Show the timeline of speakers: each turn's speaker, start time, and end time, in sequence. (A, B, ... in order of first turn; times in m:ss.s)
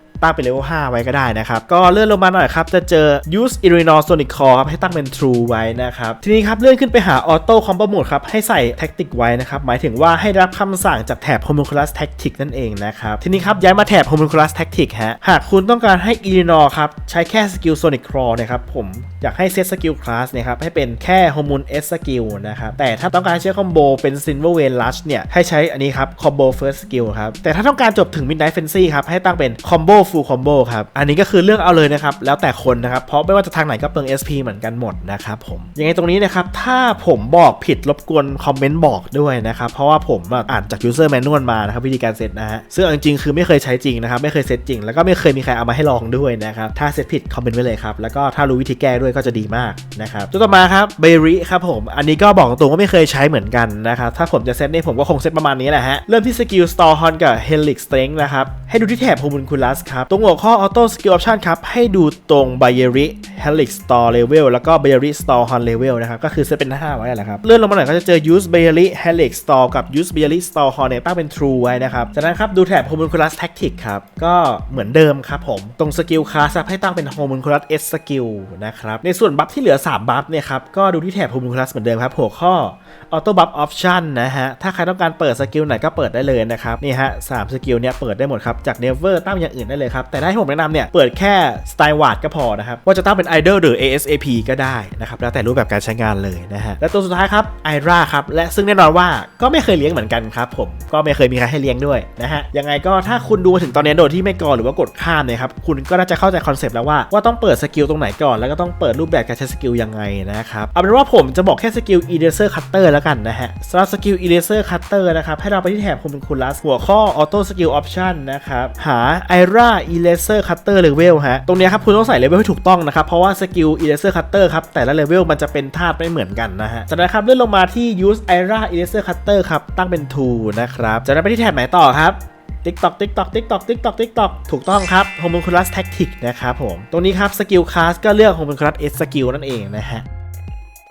0:00.2-2:20.0 A